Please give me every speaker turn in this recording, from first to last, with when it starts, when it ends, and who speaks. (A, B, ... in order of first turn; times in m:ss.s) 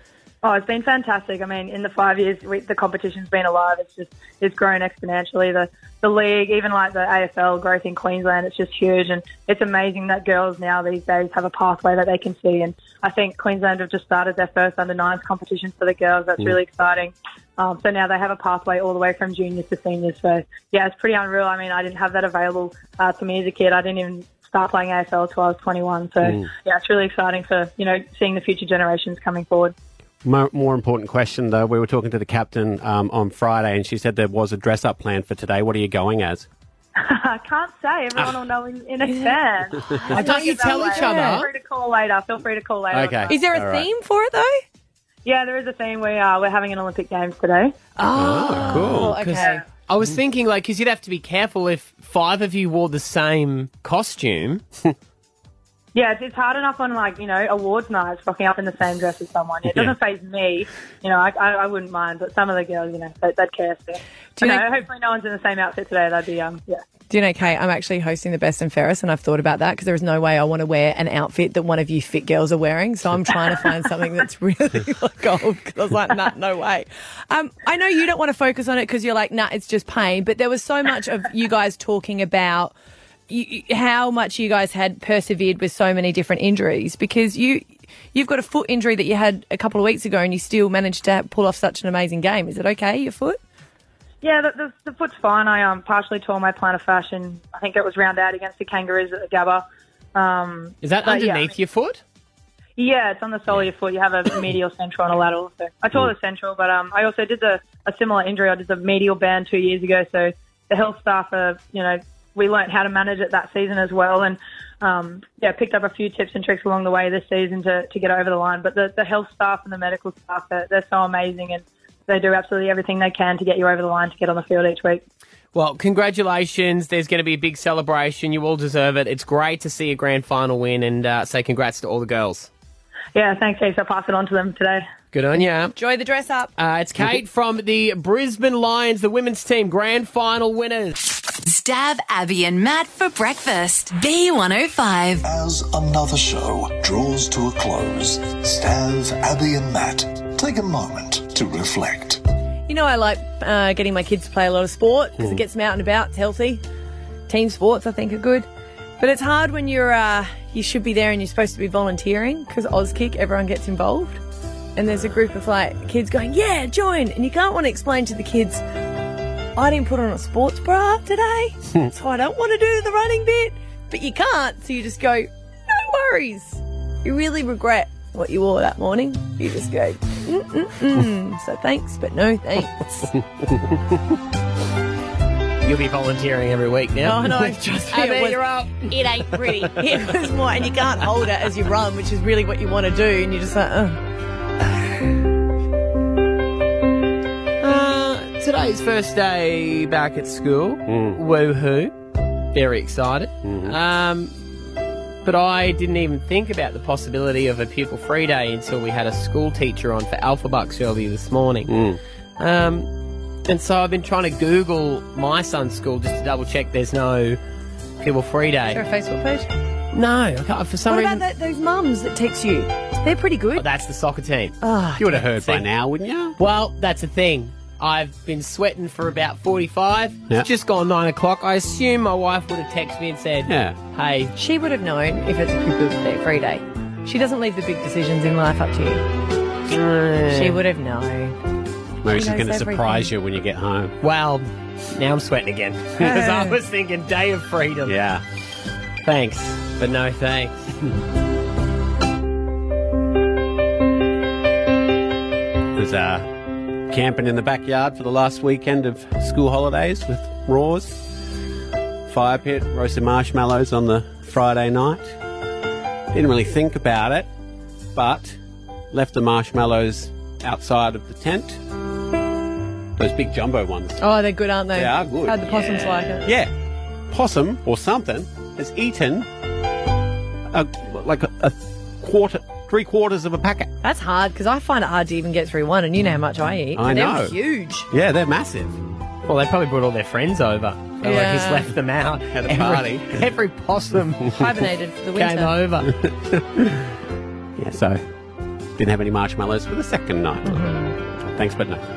0:00.4-0:29.7 A
0:26.2-0:26.5 B
0:30.2-0:36.5 B
0:37.0-0:43.4 A
0:39.0-0:41.5 C
0:40.1-0:41.5 D
0:42.9-0:43.9 B
0:43.3-0:44.6 C
0:45.2-0:47.7 A
0:48.0-0:49.6 C
0:48.2-0:49.2 B
0:48.6-0:54.6 D
0:55.9-1:06.8 A
1:04.4-1:04.7 C
1:07.1-1:22.7 C
1:23.3-1:33.4 C
1:34.2-1:41.5 A
1:40.8-1:42.0 D
1:42.8-2:05.0 A
2:05.5-2:12.5 D
2:13.1-2:14.8 A
2:15.1-2:15.7 D
2:15.7-2:16.5 C
2:16.6-2:21.0 D
2:21.4-2:25.2 E
2:25.2-2:32.2 F
2:32.7-2:36.6 C
2:37.3-2:38.5 C
2:39.0-2:44.2 C
2:44.8-2:48.6 C
2:49.6-3:03.1 C
3:05.6-3:09.7 D
3:07.0-3:14.0 C
3:17.6-3:21.9 D
3:20.9-3:21.2 B
3:22.5-3:24.7 D
3:23.4-3:23.8 B
3:25.2-3:31.7 D
3:31.7-3:32.0 B
3:32.4-3:32.9 D
3:33.4-3:37.4 D
3:38.0-3:38.8 D
3:38.7-3:39.5 C
3:39.9-3:41.2 D
3:40.9-3:43.7 C
3:43.5-3:44.5 D
3:44.6-3:45.2 C
3:45.0-3:46.4 B
3:45.4-3:45.7 D
3:46.4-3:54.3 D
3:53.5-3:53.8 B
3:54.4-3:59.0 C
3:59.7-4:00.6 D
4:00.3-4:01.4 C
4:02.0-4:04.0 B
4:02.1-4:03.1 C
4:04.0-4:08.0 D
4:06.0-4:06.6 C
4:07.8-4:08.2 B
4:09.0-4:10.7 D
4:15.8-4:16.3 B
4:16.9-4:21.0 B
4:22.1-4:25.1 B
4:26.1-4:27.3 B
4:27.9-4:28.4 B
4:28.9-4:31.6 B
4:33.0-4:34.0 B
4:34.0-4:36.3 C
4:34.7-4:36.5 B
4:35.6-4:36.1 D
4:37.1-4:39.3 B
4:40.5-4:43.7 B
4:43.8-4:47.9 C
4:46.8-4:47.3 B
4:47.9-4:48.8 B
4:49.3-4:54.4 D
4:51.0-4:51.7 C
4:52.3-4:53.2 B
4:54.3-4:55.5 C
4:55.1-4:55.9 D
4:55.9-4:56.9 B
4:57.6-4:58.1 B
4:58.8-5:00.7 B
5:00.4-5:01.0 C
5:01.3-5:01.8 B